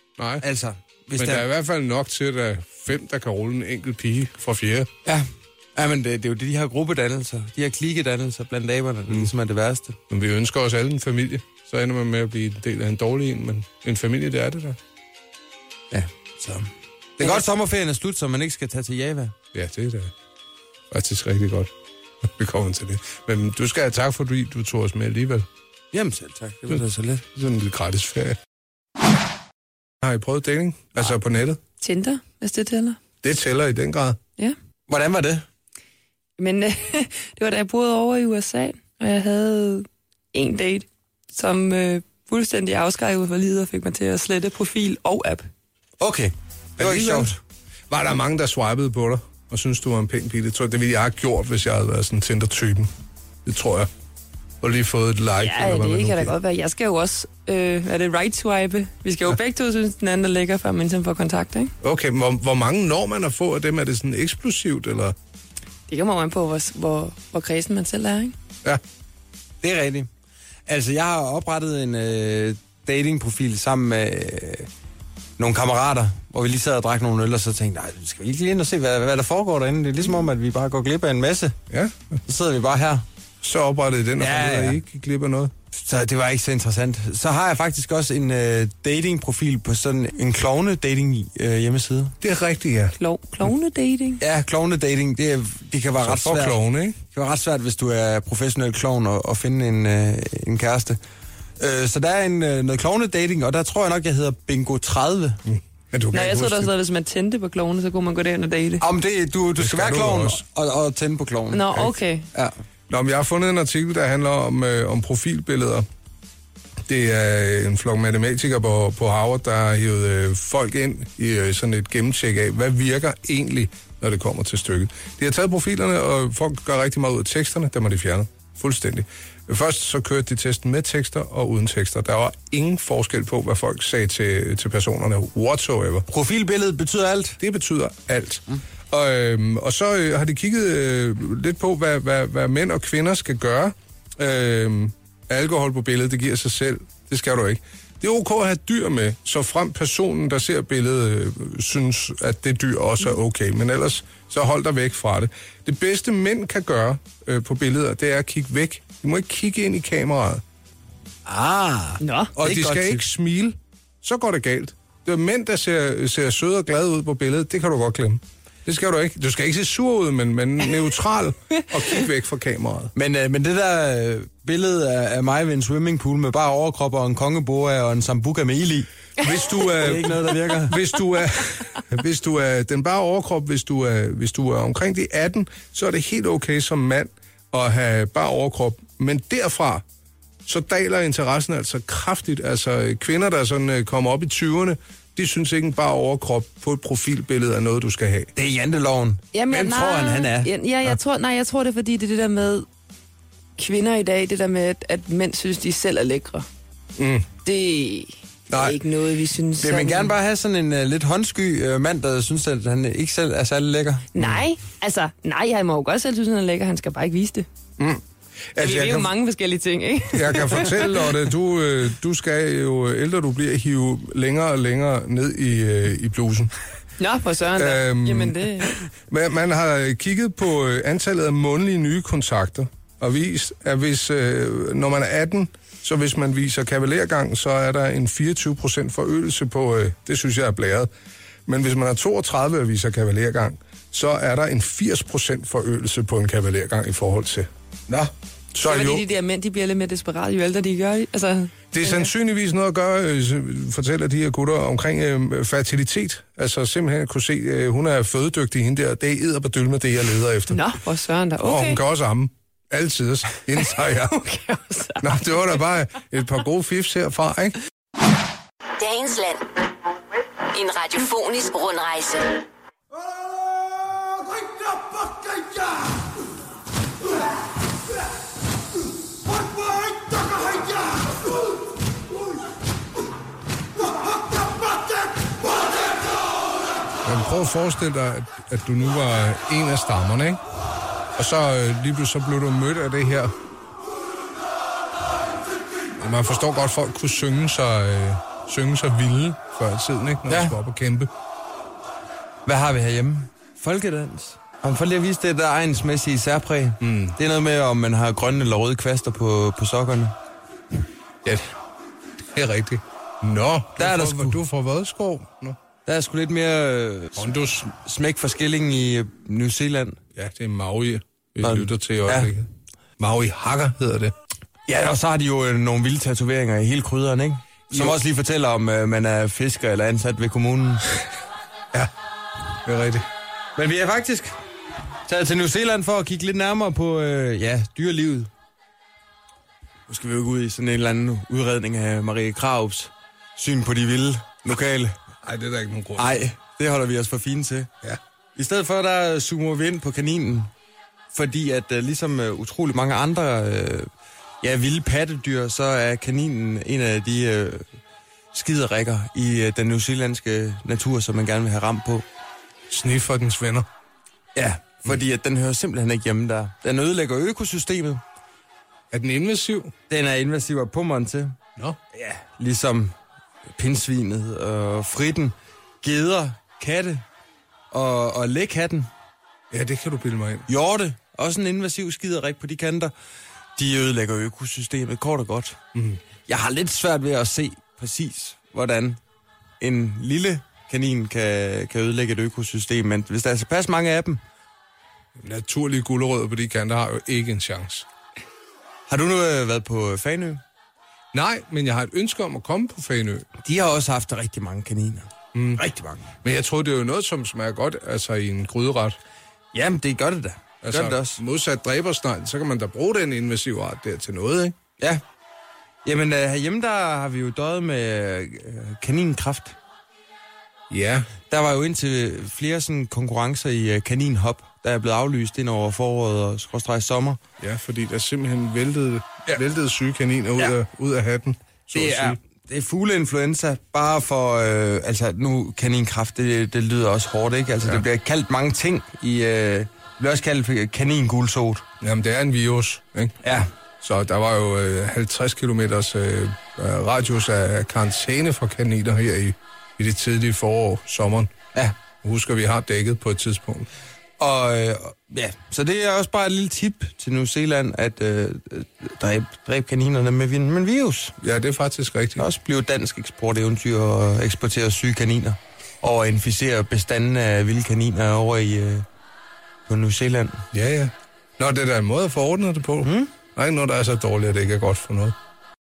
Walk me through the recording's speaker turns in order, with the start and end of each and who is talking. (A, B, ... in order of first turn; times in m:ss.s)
0:00.2-0:00.4 A
0:00.4-0:01.5 B
0:01.2-0:04.9 A
0:05.0-0:10.0 B
0:10.1-0:14.8 A
0:15.9-0:19.4 B
0:19.5-0:20.1 A
0:20.9-0:21.7 A
0:22.2-0:25.5 A
0:25.9-0:27.2 B
0:27.4-0:28.4 A
0:30.0-0:31.6 A
0:31.8-0:33.0 C
0:33.2-0:34.2 A
0:34.9-0:35.5 B
0:36.4-0:45.5 C
0:46.0-0:47.4 B
0:46.8-0:47.3 A
0:47.9-0:52.9 A
0:53.4-0:53.9 A
0:54.6-0:56.4 A
0:55.4-1:01.7 C
1:01.8-1:05.2 A
1:05.9-1:08.4 C
1:09.6-1:10.1 B
1:10.7-1:14.7 B
1:15.4-1:21.6 B
1:21.7-1:22.2 A
1:22.3-1:23.0 B
1:23.4-1:25.5 A
1:24.2-1:24.8 B
1:25.7-1:32.2 B
1:32.2-1:33.0 A
1:33.0-1:34.2 C
1:34.2-1:36.6 B
1:36.0-1:37.0 A
1:37.1-1:41.0 B
1:41.6-1:45.4 B
1:45.5-1:46.7 A
1:46.1-1:48.8 C
1:48.8-1:52.5 B
1:49.6-1:50.4 A
1:51.5-1:52.3 C
1:52.9-1:55.9 A
1:56.9-2:16.1 A
2:16.1-2:17.4 B
2:17.4-2:40.4 A
2:41.3-2:43.0 B
2:42.0-2:42.3 C
2:42.4-2:52.9 A
2:53.0-2:58.9 B
2:59.2-3:09.8 A
2:59.7-3:00.8 B
3:10.5-3:18.3 A
3:18.4-3:20.5 B
3:19.3-3:22.7 C
3:23.6-3:26.5 C
3:27.0-3:27.3 A
3:27.4-3:30.1 C
3:28.5-3:28.8 A
3:29.6-3:34.1 B
3:34.1-3:37.5 C
3:34.2-3:34.4 A
3:38.6-3:39.1 A
3:38.6-3:41.1 C
3:40.1-3:46.5 A
3:47.0-3:48.8 C
3:47.6-4:00.9 A
4:01.5-4:07.5 A
4:08.5-4:09.1 A
4:08.6-4:12.1 C
4:11.7-4:20.6 A
4:20.5-4:21.8 C
4:21.4-4:24.3 A
4:24.2-4:25.1 C
4:25.0-4:27.6 A
4:28.8-4:29.5 D
4:30.5-4:32.4 D
4:34.5-4:35.4 B
4:39.6-4:40.6 B
4:47.0-4:50.4 A
4:51.2-4:53.3 A
4:56.0-5:01.1 A
5:00.3-5:00.6 B
5:02.5-5:10.2 B
5:06.8-5:07.2 A
5:11.2-5:11.5 A
5:12.3-5:15.6 A
5:13.8-5:14.4 B
5:15.9-5:20.0 B
5:17.2-5:17.7 A
5:20.2-5:24.1 A
5:21.4-5:22.3 B
5:24.7-5:30.8 B
5:27.7-5:28.0 A
5:32.6-5:33.1 A
5:33.6-5:34.4 B
5:35.1-5:38.3 B
5:39.9-5:45.0 B
5:45.2-5:46.2 A
5:46.0-5:47.7 B
5:48.4-5:50.5 B
5:51.1-5:53.9 B
5:54.4-5:57.7 B
5:58.3-6:02.0 B
6:02.7-6:03.7 A
6:04.4-6:08.0 B
6:08.9-6:09.7 A
6:09.9-6:11.4 B
6:11.9-6:12.9 B
6:13.6-6:17.0 B
6:17.7-6:18.9 B
6:19.5-6:20.5 A
6:20.5-6:22.9 B
6:23.6-6:25.6 B
6:25.7-6:26.0 A
6:26.3-6:29.0 B
6:29.6-6:34.2 B
6:35.2-6:37.9 A
6:38.9-6:40.4 B
6:41.1-6:43.3 A
6:43.4-6:46.1 B
6:45.3-6:45.6 A
6:46.2-6:49.0 A
6:49.5-6:51.2 B
6:50.6-6:54.6 A
6:55.8-6:59.6 B
7:00.7-7:01.1 A
7:01.3-7:07.2 B
7:07.4-7:12.2 A
7:11.7-7:21.6 B
7:21.8-7:23.2 A
7:23.2-7:23.5 B
7:23.8-7:31.3 A
7:32.0-7:33.7 A
7:34.2-7:41.2 B
7:41.2-7:42.2 A
7:42.2-7:48.9 B
7:49.7-7:50.5 B
7:50.5-7:55.2 A
7:52.8-7:53.1 B